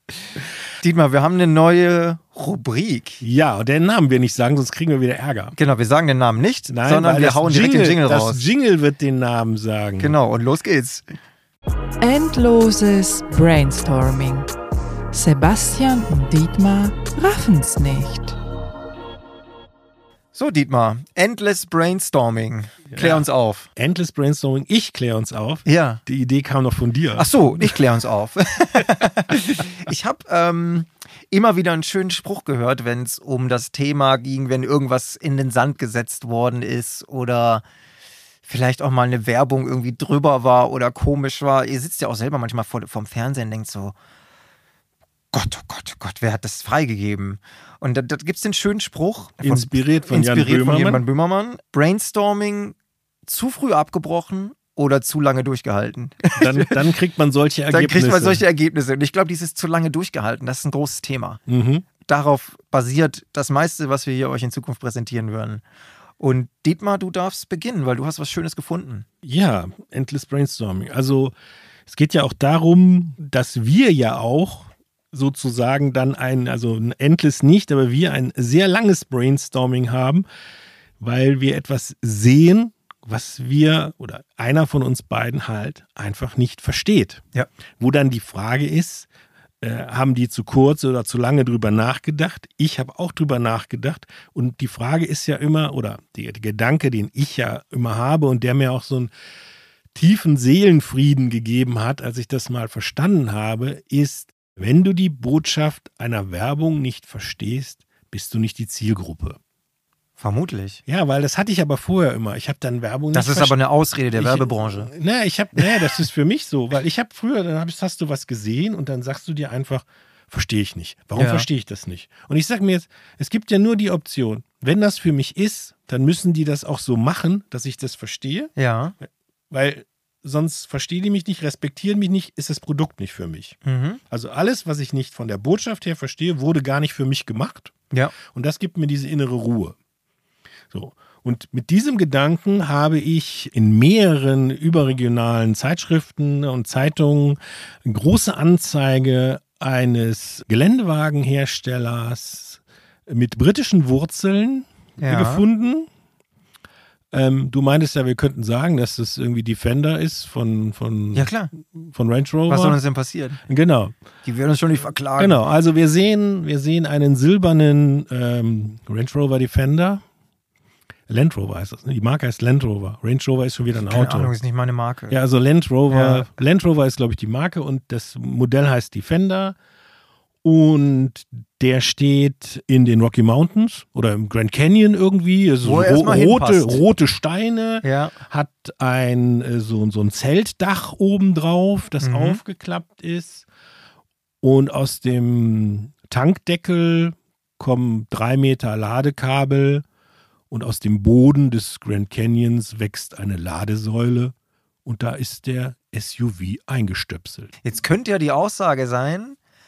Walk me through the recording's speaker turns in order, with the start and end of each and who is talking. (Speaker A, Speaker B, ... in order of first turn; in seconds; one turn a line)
Speaker A: 0.8-3.2
Speaker B: 3.2-5.5
Speaker A: 5.5-8.4
Speaker B: 6.7-10.1
Speaker A: 10.0-11.1
Speaker C: 12.0-14.5
Speaker C: 15.1-18.4
Speaker A: 20.3-23.7
Speaker B: 22.9-27.8
Speaker A: 25.6-26.0
Speaker A: 27.2-37.6
Speaker A: 38.4-43.9
Speaker A: 45.3-56.8
Speaker B: 49.4-51.0
Speaker B: 56.4-58.4
Speaker A: 57.7-61.4
Speaker B: 61.5-61.9
Speaker A: 62.0-65.6
Speaker A: 66.2-69.0
Speaker B: 69.2-71.3
Speaker B: 71.9-80.2
Speaker B: 81.0-87.2
Speaker B: 87.8-89.1
Speaker B: 89.6-99.1
Speaker B: 99.9-109.4
Speaker A: 110.2-110.8
Speaker B: 110.9-113.6
Speaker A: 113.1-114.9
Speaker B: 114.1-128.5
Speaker A: 115.5-116.0
Speaker A: 121.1-121.5
Speaker A: 128.6-128.9
Speaker B: 129.5-133.6
Speaker A: 133.6-134.0
Speaker B: 134.1-137.7
Speaker B: 138.2-139.8
Speaker B: 140.7-155.9
Speaker A: 155.0-155.4
Speaker B: 157.1-162.8
Speaker A: 161.1-161.5
Speaker A: 162.5-163.4
Speaker B: 163.5-163.9
Speaker A: 164.2-165.4
Speaker B: 165.2-170.0
Speaker B: 171.1-174.3
Speaker A: 173.8-175.2
Speaker B: 175.1-179.6
Speaker A: 175.9-176.3
Speaker B: 180.4-193.5
Speaker A: 185.6-186.8
Speaker A: 187.8-188.1
Speaker A: 192.0-192.4
Speaker B: 194.4-199.8
Speaker B: 200.5-204.3
Speaker B: 204.8-207.5
Speaker A: 207.6-209.4